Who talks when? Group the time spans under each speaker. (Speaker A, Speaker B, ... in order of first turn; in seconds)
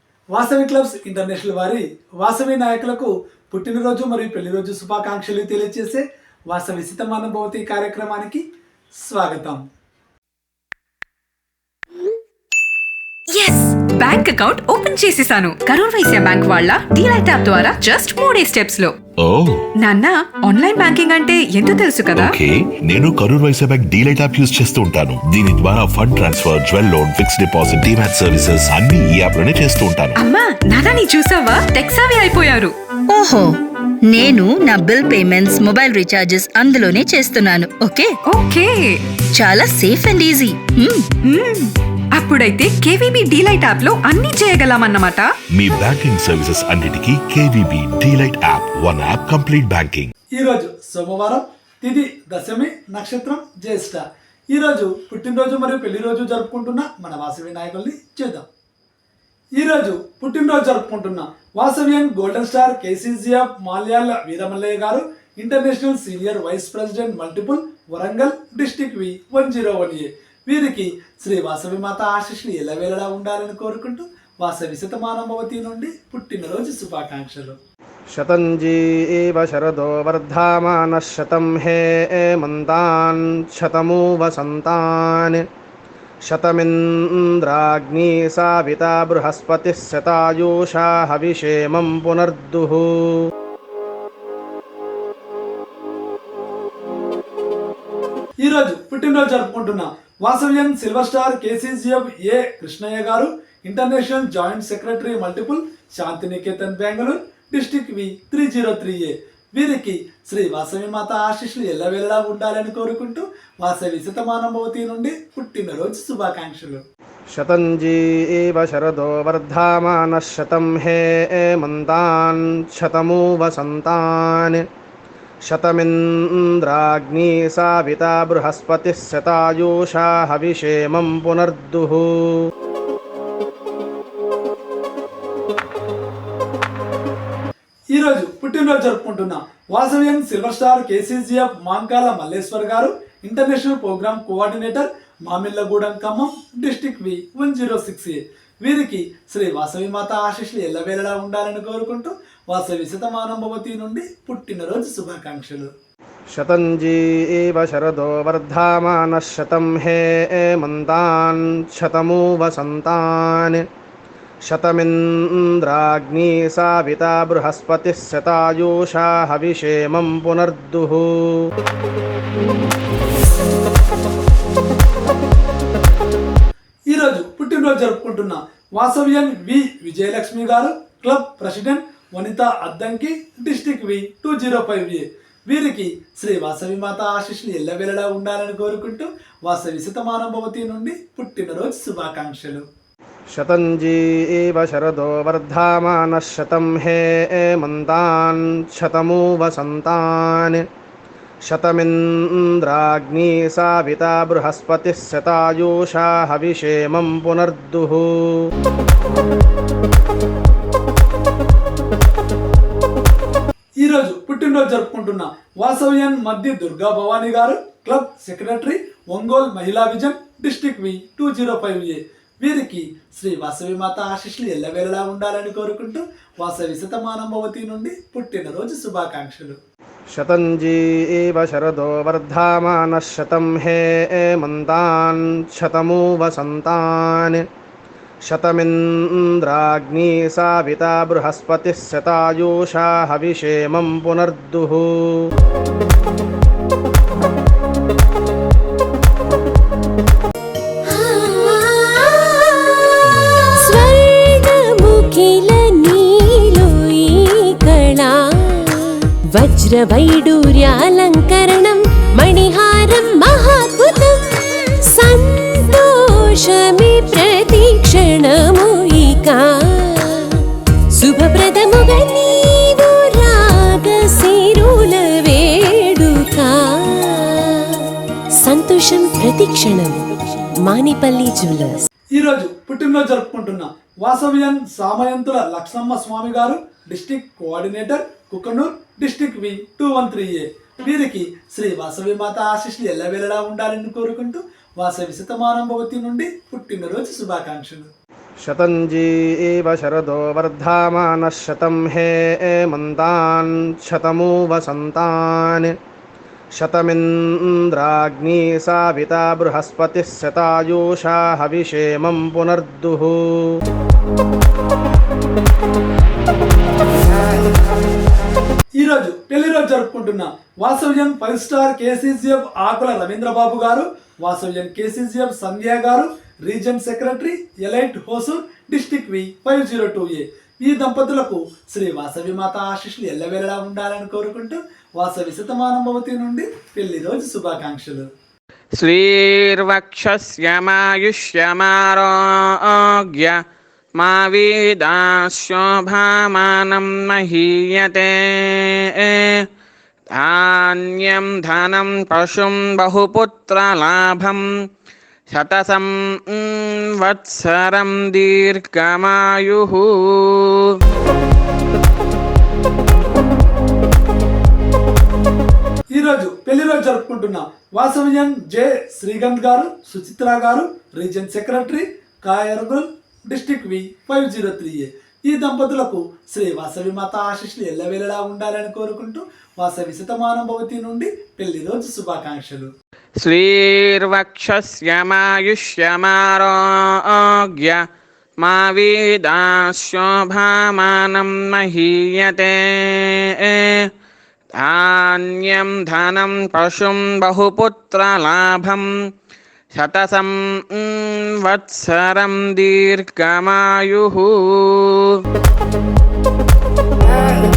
Speaker A: 0.3-8.4, 9.0-9.6, 50.4-58.5, 59.6-77.6, 98.4-116.8, 137.9-155.7, 176.9-192.6, 213.8-229.6, 282.1-297.9, 318.8-338.1, 365.9-382.7
Speaker B: 13.3-18.9, 19.8-22.4, 30.2-32.7, 38.3-39.0, 41.2-45.3
Speaker C: 19.2-19.6, 22.2-30.2, 45.5-50.1
Speaker D: 33.1-33.5, 34.1-38.1, 39.4-41.0
Speaker E: 78.1-85.4, 86.3-93.2, 117.3-124.6, 125.5-132.4, 156.3-163.6, 164.5-171.3, 193.3-200.6, 201.5-208.4, 230.1-237.4, 238.3-245.2, 298.4-305.7, 306.6-313.4
Speaker F: 250.9-270.5, 271.0-277.9, 278.4-281.9
Speaker G: 338.8-343.4, 344.0-349.5, 350.1-354.4, 355.3-360.7, 383.2-387.8, 388.4-393.9, 394.6-398.9, 399.7-405.2